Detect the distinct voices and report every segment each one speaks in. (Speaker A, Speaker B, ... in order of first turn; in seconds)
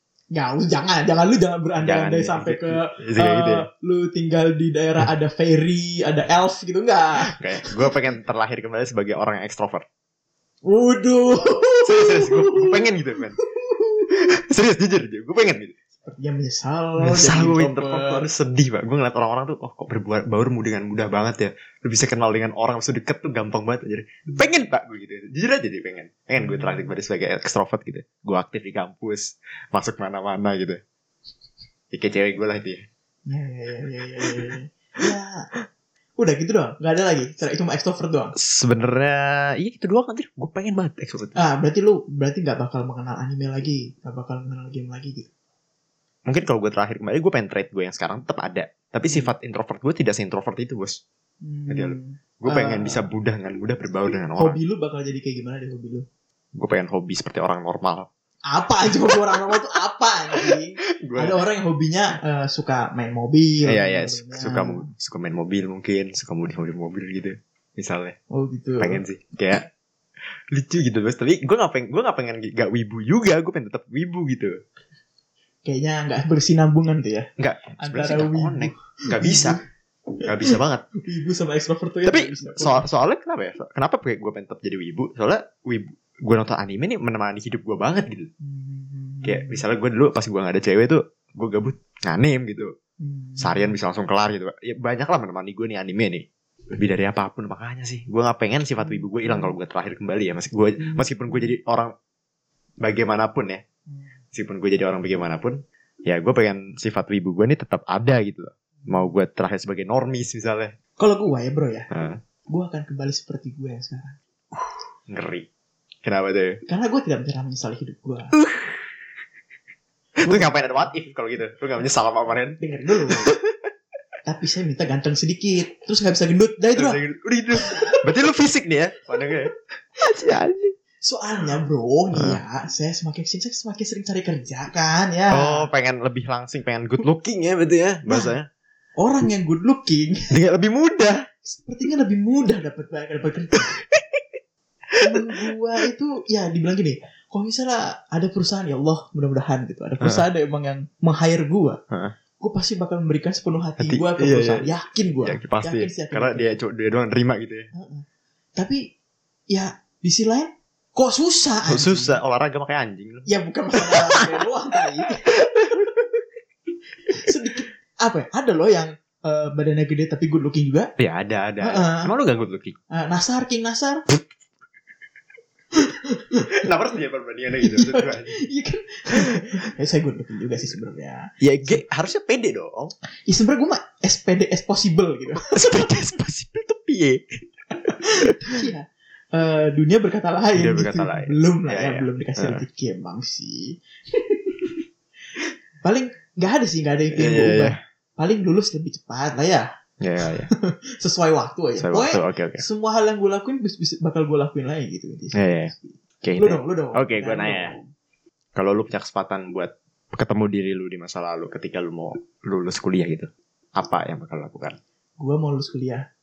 Speaker A: 0.3-7.9, 10.6-14.1, 16.0-18.3, 26.4-26.9, 33.3-35.4, 36.2-38.3, 41.3-45.3, 51.4-53.0, 54.4-56.0, 58.5-64.8, 68.3-69.0, 75.6-77.3, 77.8-79.6, 80.4-82.8, 88.4-89.6, 93.0-93.7, 111.0-111.9, 112.5-114.2, 116.7-118.3, 120.2-120.9, 122.6-123.3, 124.2-127.0, 127.5-128.0, 131.0-135.7, 139.0-140.3, 141.4-143.7, 145.0-151.8, 152.4-156.5, 157.7-158.0, 158.6-158.9, 159.5-162.2, 163.3-166.0, 167.1-170.9, 171.6-172.1, 172.9-174.0, 175.7-176.7, 177.6-181.8, 183.2-185.9, 187.8-194.8, 195.8-199.7, 200.2-207.9, 215.2-216.1
Speaker B: 1.8-3.6, 7.3-9.8, 11.8-13.4, 14.1-15.7, 17.0-30.8, 31.9-32.8, 38.4-41.4, 46.2-51.0, 51.7-54.6, 56.5-58.1, 60.3-61.4, 63.6-68.1, 68.8-69.7, 70.4-74.5, 77.4-79.6, 80.2-80.8, 82.0-88.3, 89.2-92.7, 93.4-101.9, 102.8-103.6, 104.3-110.7, 111.9-112.2, 115.1-115.5, 116.0-116.6, 118.3-118.8, 120.2-123.5, 126.7-130.7, 132.1-132.4, 135.3-138.5, 140.3-141.2, 144.9-145.5, 151.9-152.2, 153.8-154.7, 155.2-157.7, 161.7-164.4, 165.1-165.8, 171.0-172.8, 176.5-178.4, 181.4-182.9, 185.4-188.6, 190.5-192.6, 197.1-197.8, 200.0-200.5, 201.8-202.6, 205.3-207.8, 208.6-214.8